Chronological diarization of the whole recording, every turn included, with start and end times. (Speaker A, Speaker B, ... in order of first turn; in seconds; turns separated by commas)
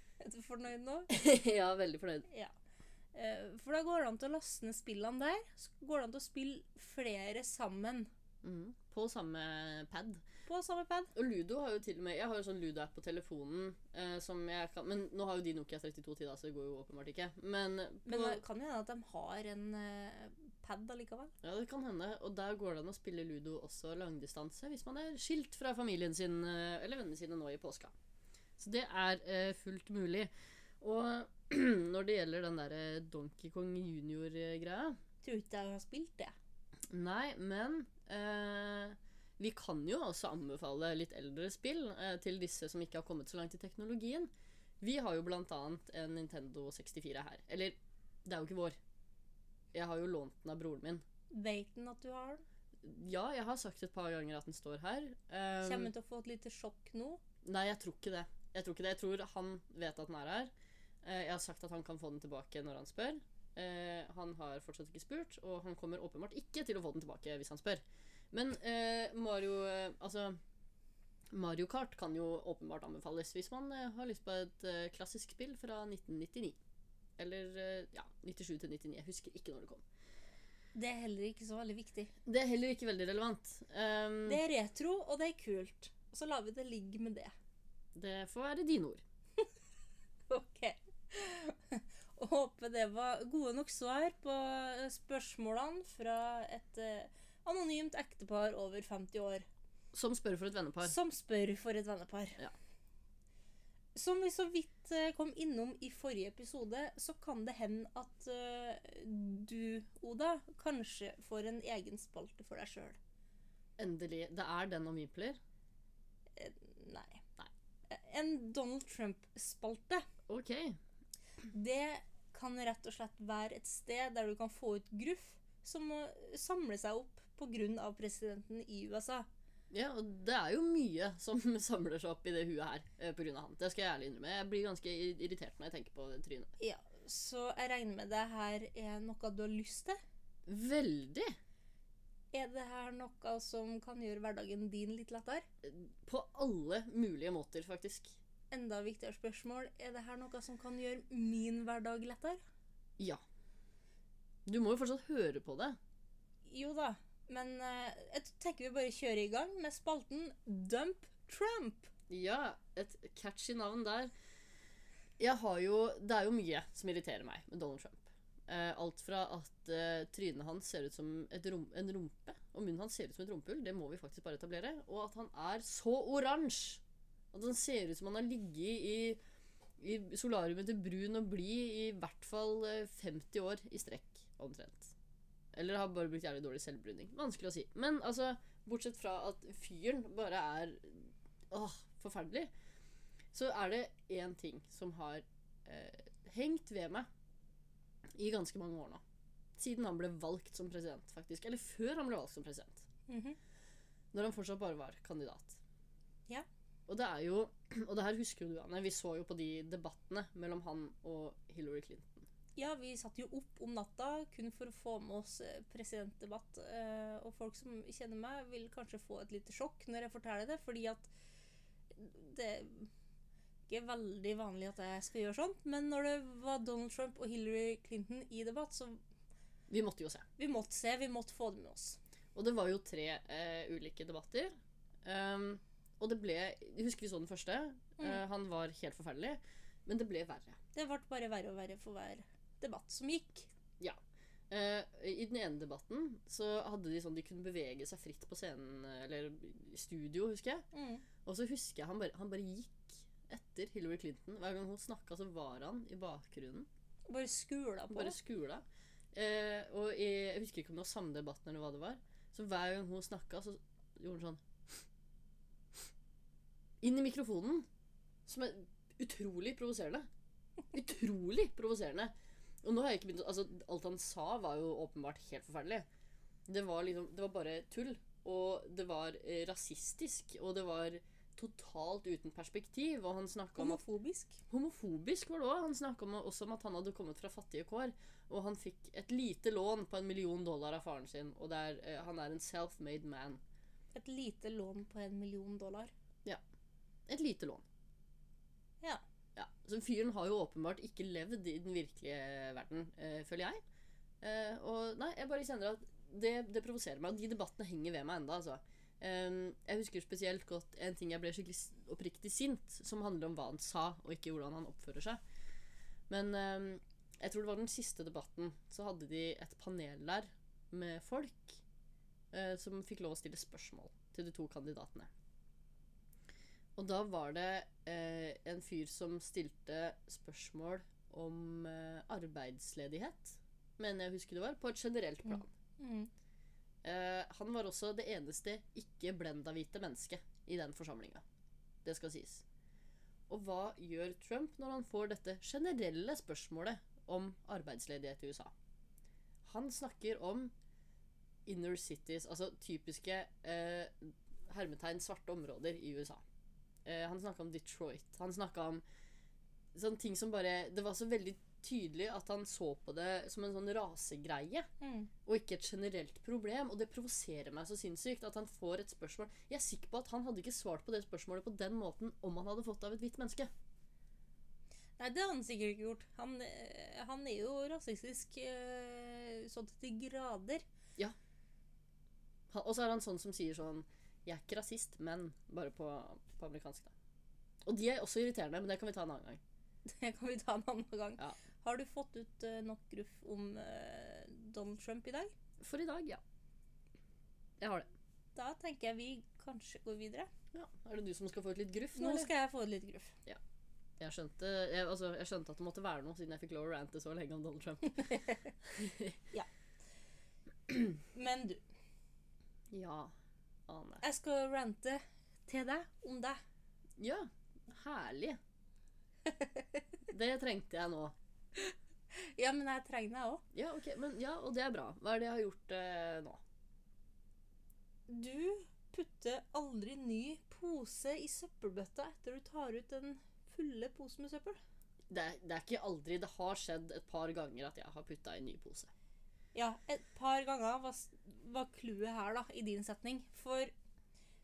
Speaker A: 0.2-1.1, Speaker B: 1.1-2.3, Speaker A: 3.1-8.1, Speaker B: 8.4-10.2, Speaker A: 10.5-11.1, Speaker B: 11.2-18.4, Speaker A: 18.1-21.3, Speaker B: 21.4-27.9, Speaker B: 28.6-35.0, Speaker A: 35.2-36.4, Speaker B: 36.9-48.8, Speaker B: 49.7-51.0, Speaker A: 51.3-52.4, Speaker B: 52.8-55.9, Speaker A: 55.6-57.2, Speaker B: 57.4-60.5, Speaker B: 61.0-70.4, Speaker B: 71.3-76.6, Speaker B: 77.2-79.8, Speaker A: 80.8-82.1, Speaker B: 82.3-84.4, Speaker A: 84.3-87.3, Speaker B: 88.0-89.0, Speaker A: 90.3-99.5, Speaker B: 99.9-101.0, Speaker A: 100.8-102.4, Speaker A: 104.0-113.0, Speaker B: 113.8-115.4, Speaker A: 116.4-117.2, Speaker A: 117.9-120.0, Speaker B: 120.3-120.8, Speaker A: 121.5-129.3, Speaker B: 129.7-136.5, Speaker A: 136.6-140.0, Speaker B: 140.5-141.3, Speaker A: 142.3-145.5, Speaker B: 145.6-148.2, Speaker A: 148.5-152.4, Speaker B: 154.4-155.8, Speaker A: 156.5-161.9, Speaker B: 162.1-164.1, Speaker B: 165.2-179.2, Speaker B: 179.8-184.9, Speaker B: 185.6-192.5, Speaker B: 193.3-197.1, Speaker B: 198.1-199.0, Speaker B: 199.6-202.9, Speaker A: 203.1-203.4, Speaker B: 204.1-205.6, Speaker B: 206.9-212.3, Speaker A: 212.6-221.1, Speaker A: 221.9-222.9, Speaker A: 223.7-229.0, Speaker B: 229.7-230.3, Speaker A: 230.4-232.0, Speaker B: 232.3-234.5, Speaker B: 235.0-240.6, Speaker A: 240.7-243.5, Speaker B: 244.5-250.6, Speaker A: 250.7-251.0, Speaker B: 251.2-256.7, Speaker A: 257.1-258.2, Speaker B: 257.9-264.8, Speaker B: 266.8-267.7, Speaker B: 268.3-270.1, Speaker B: 270.7-275.9, Speaker B: 276.5-283.8, Speaker A: 283.6-284.4, Speaker B: 284.5-293.4, Speaker A: 293.9-295.9, Speaker B: 297.1-297.6, Speaker B: 299.4-303.6, Speaker B: 304.2-315.2, Speaker B: 316.1-321.6, Speaker B: 322.3-325.1, Speaker B: 326.8-335.5, Speaker A: 335.8-336.1, Speaker B: 336.8-341.2, Speaker B: 341.8-342.4, Speaker B: 343.3-348.5, Speaker B: 349.4-350.5, Speaker B: 351.5-356.2, Speaker B: 356.9-358.8, Speaker B: 359.7-364.7, Speaker A: 364.8-365.1, Speaker B: 365.3-373.5, Speaker A: 375.0-380.6, Speaker B: 382.5-386.9, Speaker B: 387.6-389.4, Speaker A: 389.9-395.3, Speaker B: 395.6-396.2, Speaker B: 397.6-397.9, Speaker A: 398.4-400.3, Speaker B: 400.5-402.3, Speaker A: 402.0-403.1, Speaker B: 404.0-409.2, Speaker A: 408.0-408.5, Speaker A: 411.1-411.6, Speaker B: 412.7-413.1, Speaker B: 413.7-414.0, Speaker A: 414.0-416.4, Speaker B: 417.0-418.4, Speaker A: 419.3-419.8, Speaker B: 420.1-421.1, Speaker A: 421.6-423.4, Speaker B: 423.5-426.4, Speaker A: 428.1-434.6, Speaker B: 435.1-438.9, Speaker A: 439.6-443.7